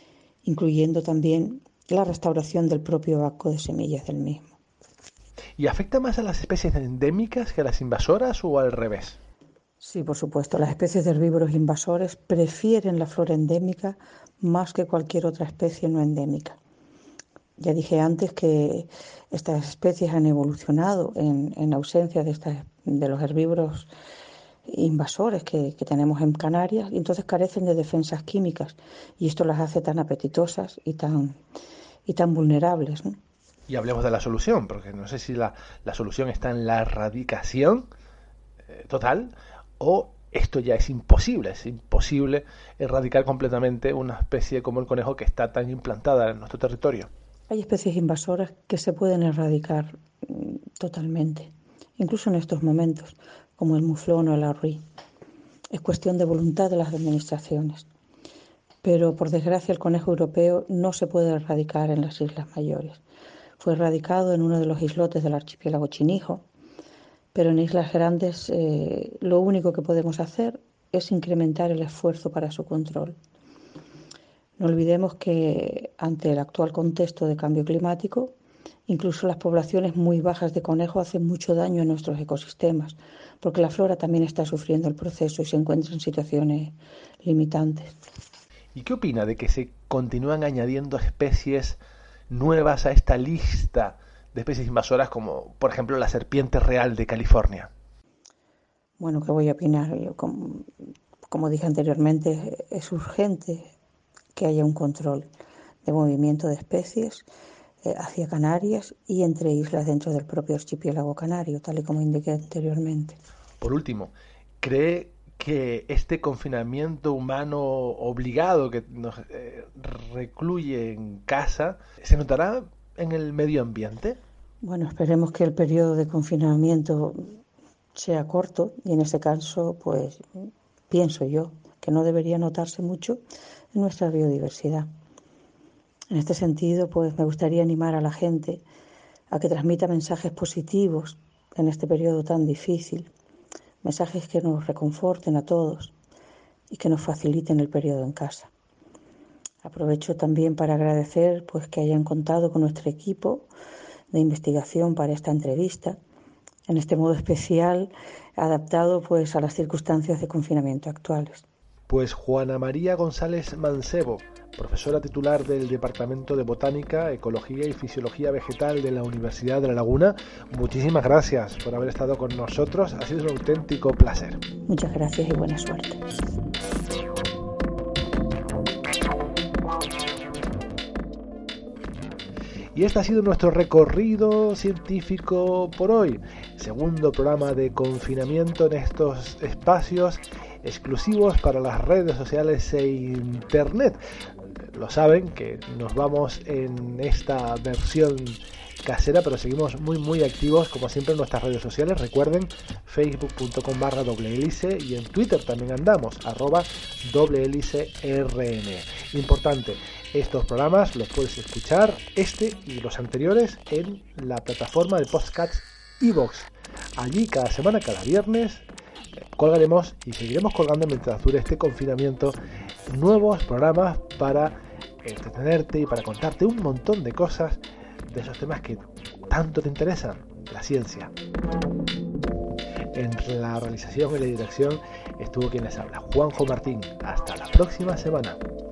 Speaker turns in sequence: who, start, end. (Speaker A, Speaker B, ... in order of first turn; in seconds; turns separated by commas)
Speaker A: 0.4-4.5, Speaker B: 5.6-9.2, Speaker A: 9.8-16.6, Speaker A: 17.6-23.9, Speaker A: 24.7-31.4, Speaker A: 32.1-33.2, Speaker B: 33.7-37.9, Speaker B: 38.7-47.1, Speaker A: 47.5-54.8, Speaker A: 55.7-57.9, Speaker A: 58.8-63.0, Speaker A: 63.6-66.4, Speaker A: 67.3-73.2, Speaker A: 74.6-78.3, Speaker A: 78.9-88.0, Speaker B: 88.8-91.8, Speaker B: 92.3-97.7, Speaker A: 99.0-100.7, Speaker A: 101.3-103.7, Speaker A: 104.3-105.3, Speaker A: 105.8-107.3, Speaker A: 107.8-113.2, Speaker B: 113.6-124.2, Speaker A: 124.6-127.3, Speaker A: 128.0-133.2, Speaker A: 133.7-134.9, Speaker A: 136.1-138.6, Speaker A: 139.3-143.1, Speaker A: 143.8-145.9, Speaker A: 146.7-148.5, Speaker A: 149.6-153.5, Speaker A: 154.1-156.0, Speaker A: 156.7-161.4, Speaker B: 161.9-174.4, Speaker A: 174.7-176.0, Speaker B: 182.7-194.0, Speaker B: 194.7-218.7, Speaker B: 219.3-222.4, Speaker B: 222.9-231.1, Speaker B: 232.9-238.4